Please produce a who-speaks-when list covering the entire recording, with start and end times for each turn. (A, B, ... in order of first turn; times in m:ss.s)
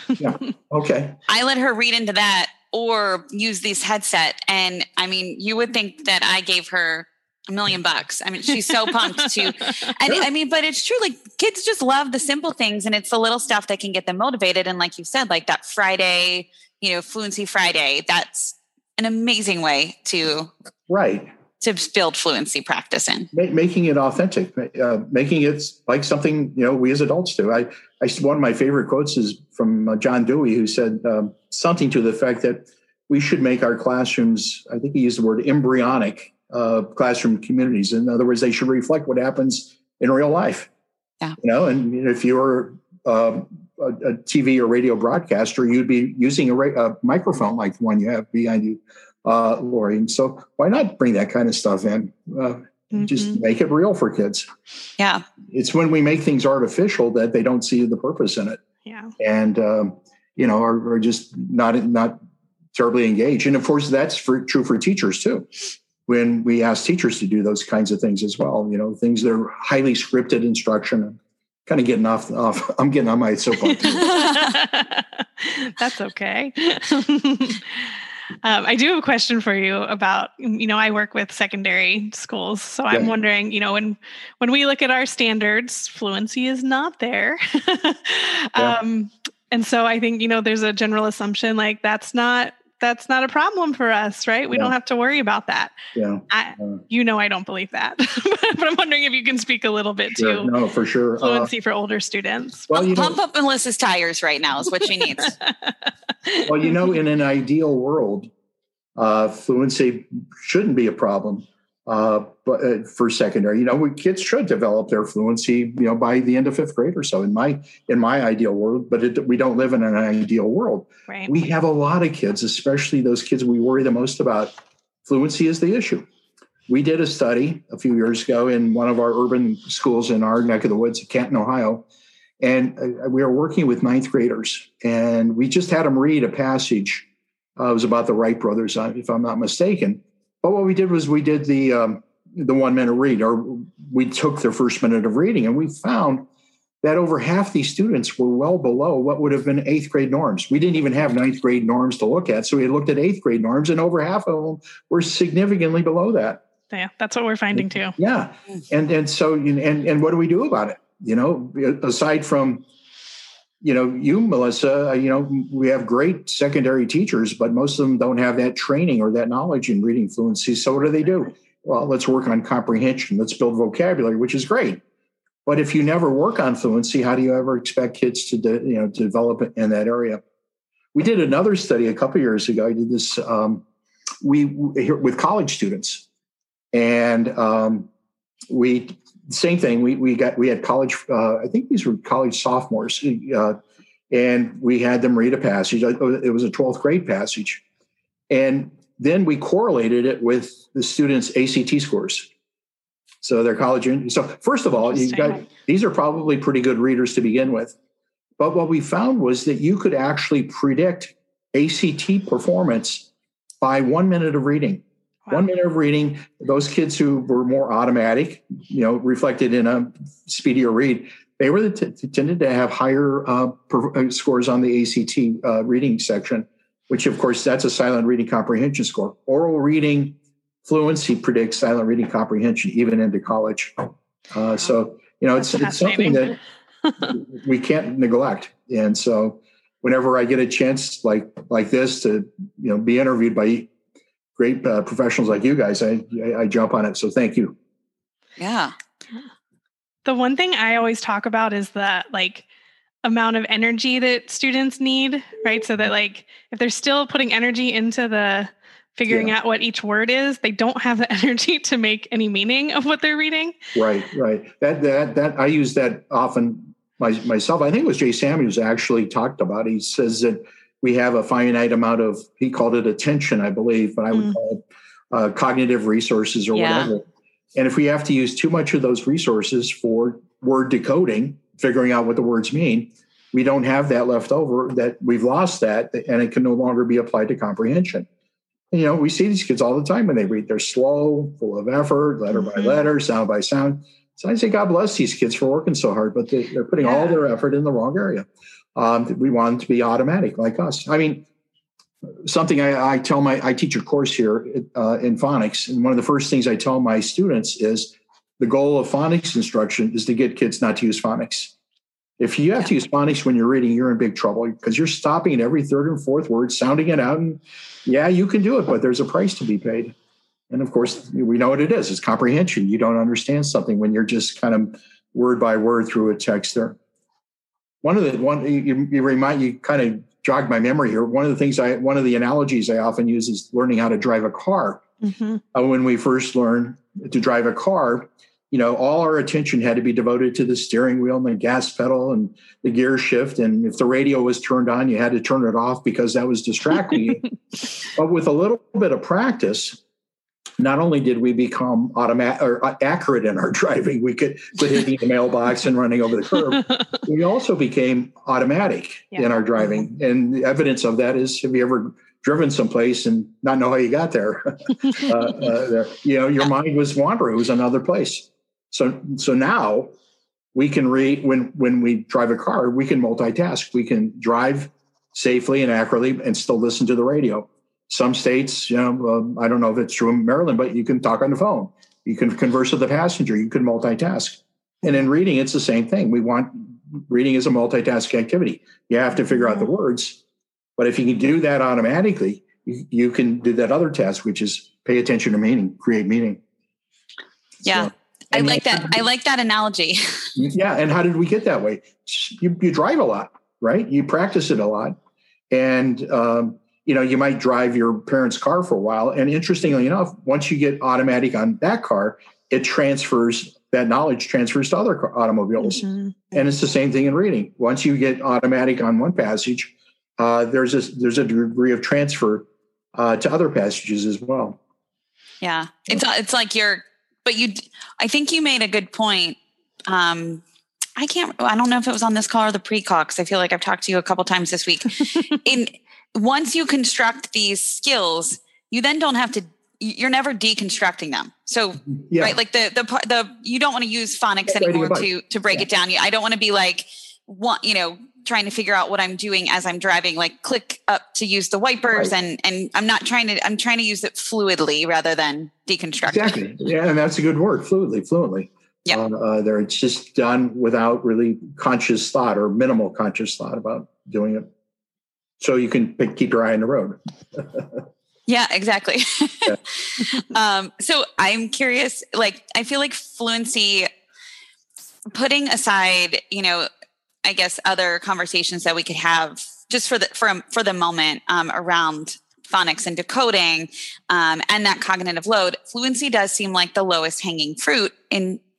0:00.2-0:01.2 A
0:01.3-0:20.5 B
0:20.9-0:21.3 A
0:21.6-0:23.3 B
0:23.3-0:40.7 A
0:41.4-0:54.5 A
0:53.0-0:53.4 C
0:55.0-0:55.2 B
0:55.5-0:58.6 A
0:58.9-0:59.1 C
0:59.2-1:02.2 A
1:02.7-1:05.5 A
1:06.1-1:14.4 A
1:14.0-1:17.6 C
1:18.4-1:35.8 C
1:36.0-1:36.8 A
1:36.3-1:40.5 C
1:40.2-1:41.5 A
1:41.2-1:42.7 C
1:42.7-1:43.2 A
1:42.7-1:45.4 B
1:46.2-1:46.5 C
1:46.4-1:48.3 A
1:49.0-2:04.5 A
2:05.0-2:06.1 A
2:06.7-2:11.9 A
2:12.4-2:26.3 A
2:26.8-2:36.4 A
2:36.7-2:38.0 C
2:37.5-2:42.7 A
2:43.6-2:54.8 A
2:55.4-3:00.2 A
3:00.9-3:03.6 A
3:04.2-3:06.1 A
3:06.7-3:07.9 A
3:08.5-3:13.6 A
3:14.1-3:17.6 A
3:18.3-3:22.3 A
3:23.2-3:27.8 A
3:24.9-3:25.4 C
3:28.4-3:33.1 A
3:33.6-3:56.4 A
3:55.4-3:56.4 C
3:57.0-4:03.7 A
4:04.4-4:07.6 A
4:08.4-4:08.7 B
4:10.0-4:12.4 C
4:13.0-4:23.6 C
4:19.1-4:19.3 A
4:23.8-4:48.1 A
4:36.5-4:36.9 B
4:48.7-5:01.3 A
4:56.8-4:57.2 C
5:02.1-5:11.5 A
5:12.2-5:20.0 A
5:20.5-5:26.8 A
5:27.8-5:34.8 A
5:35.0-5:35.4 C
5:35.5-5:49.8 A
5:50.6-6:09.9 A
6:10.5-6:30.2 A
6:30.8-6:36.4 A
6:37.6-6:40.3 B
6:37.7-6:39.0 A
6:40.4-6:45.0 A
6:45.5-7:04.6 A
6:55.8-6:56.1 C
7:05.4-7:10.4 B
7:11.0-7:36.4 B
7:22.1-7:22.4 A
7:24.5-7:25.1 A
7:36.1-7:44.5 A
7:45.4-7:47.8 A
7:48.3-7:53.9 B
7:55.1-7:56.7 B
7:57.2-8:08.4 B